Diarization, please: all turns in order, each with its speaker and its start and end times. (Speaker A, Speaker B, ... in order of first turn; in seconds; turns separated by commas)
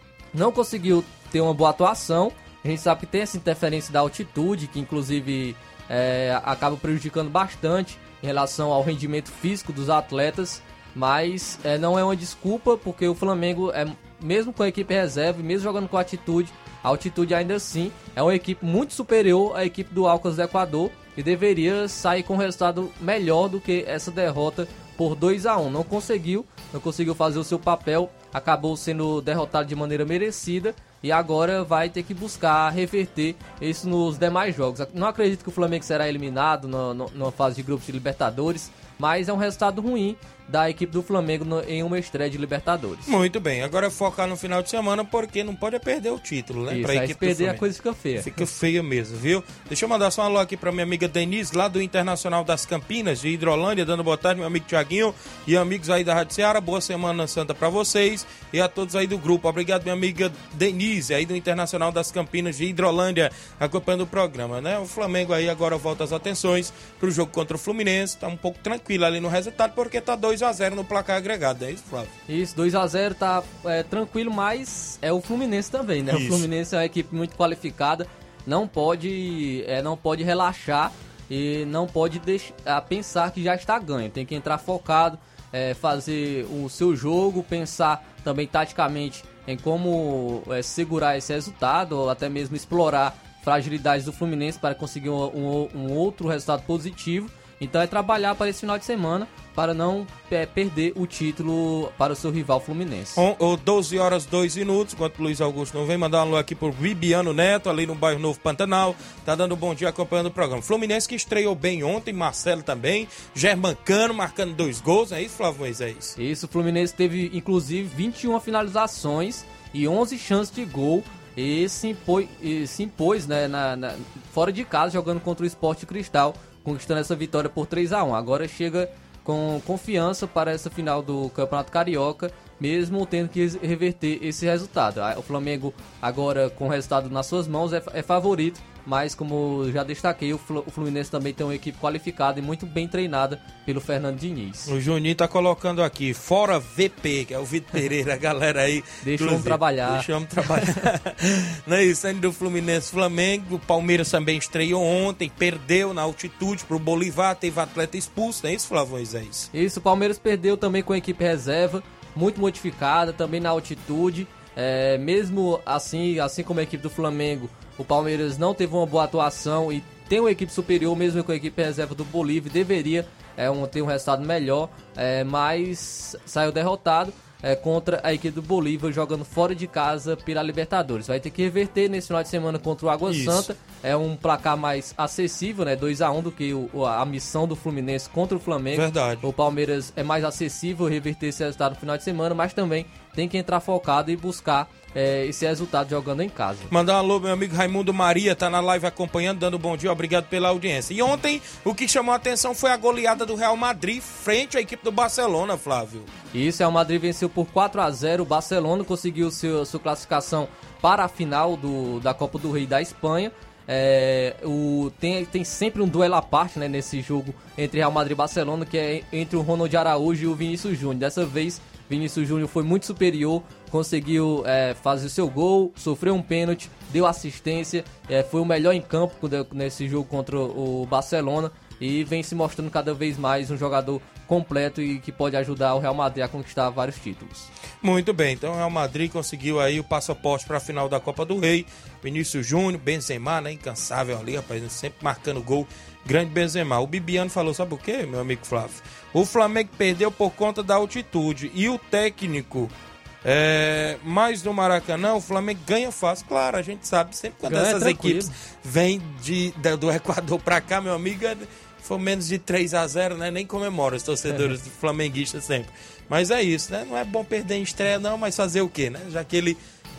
Speaker A: 0.3-43.2, Speaker B: 43.0-47.6, Speaker A: 46.7-48.3, Speaker B: 48.2-72.1, Speaker A: 72.3-103.2, Speaker B: 76.1-76.5, Speaker B: 103.1-116.2, Speaker A: 116.2-144.7, Speaker B: 144.7-159.5, Speaker A: 149.0-150.8, Speaker A: 159.5-196.7, Speaker B: 183.1-183.5, Speaker B: 188.7-189.2, Speaker B: 196.7-206.1, Speaker A: 206.3-237.5, Speaker B: 237.8-252.7, Speaker B: 253.2-269.6, Speaker A: 257.4-258.3